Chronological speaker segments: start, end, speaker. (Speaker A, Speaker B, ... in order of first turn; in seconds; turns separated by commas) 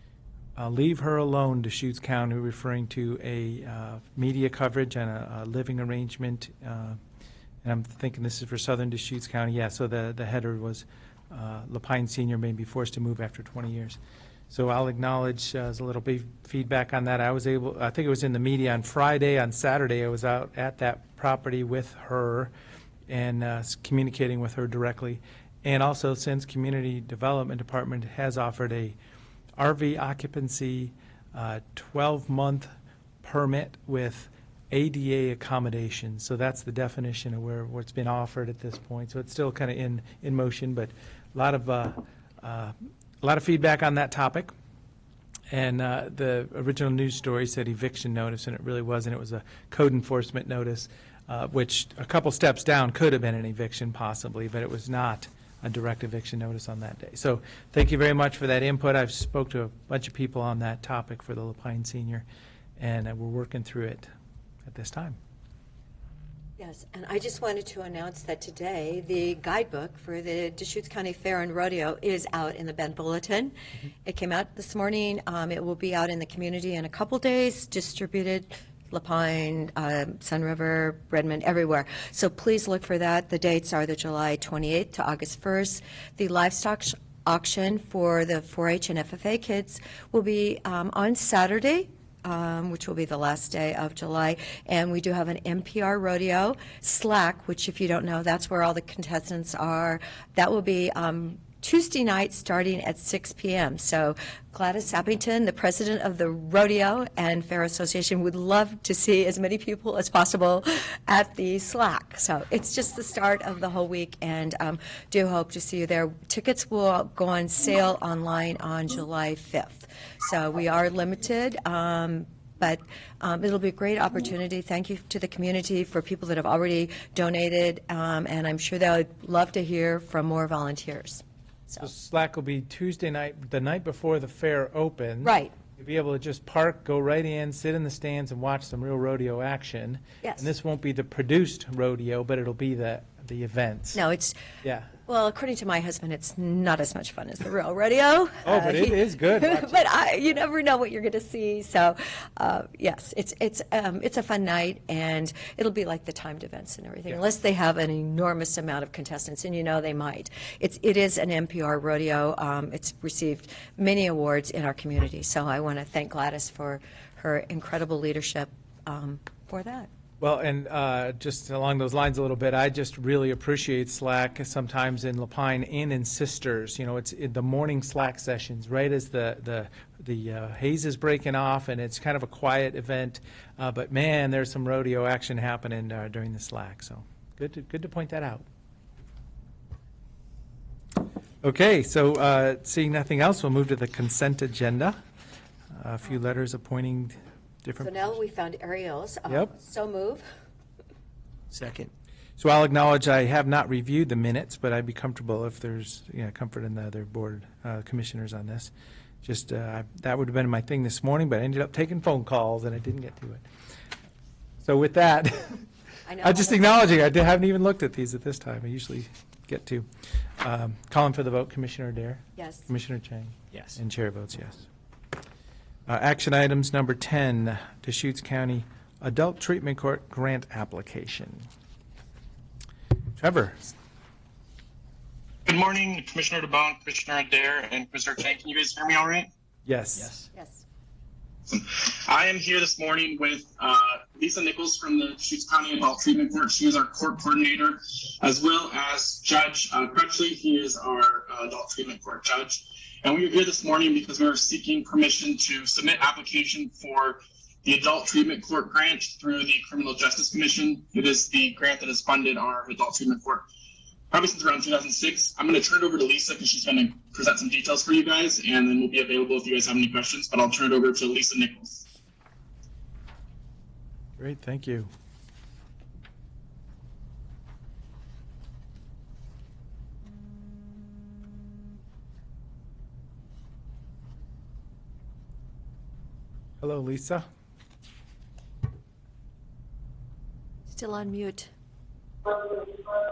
Speaker A: 0.6-7.0, Speaker A: 7.6-14.0, Speaker A: 14.5-22.5, Speaker A: 23.1-29.0, Speaker A: 29.6-32.7, Speaker A: 33.2-44.5, Speaker A: 45.5-62.2, Speaker A: 62.8-64.1, Speaker A: 64.7-65.2, Speaker B: 66.6-73.5, Speaker B: 74.0-131.9, Speaker A: 131.8-144.0, Speaker B: 135.2-135.5, Speaker B: 140.2-140.5, Speaker B: 143.9-144.4, Speaker A: 144.6-144.9, Speaker B: 145.1-169.9, Speaker A: 148.4-150.0, Speaker A: 170.2-188.4, Speaker A: 191.4-195.0, Speaker A: 195.8-198.0, Speaker B: 197.8-200.2, Speaker A: 199.3-199.5, Speaker A: 201.5-208.7, Speaker A: 209.2-213.4, Speaker A: 214.6-215.6, Speaker B: 216.1-216.8, Speaker A: 216.2-219.9, Speaker A: 220.4-224.7, Speaker B: 222.4-222.7, Speaker A: 225.9-231.5, Speaker A: 233.2-233.7, Speaker C: 235.5-239.3, Speaker A: 239.7-240.2, Speaker B: 240.3-240.6, Speaker C: 241.5-263.5, Speaker C: 264.1-271.9, Speaker A: 274.2-274.9, Speaker A: 286.6-287.2, Speaker B: 290.7-291.5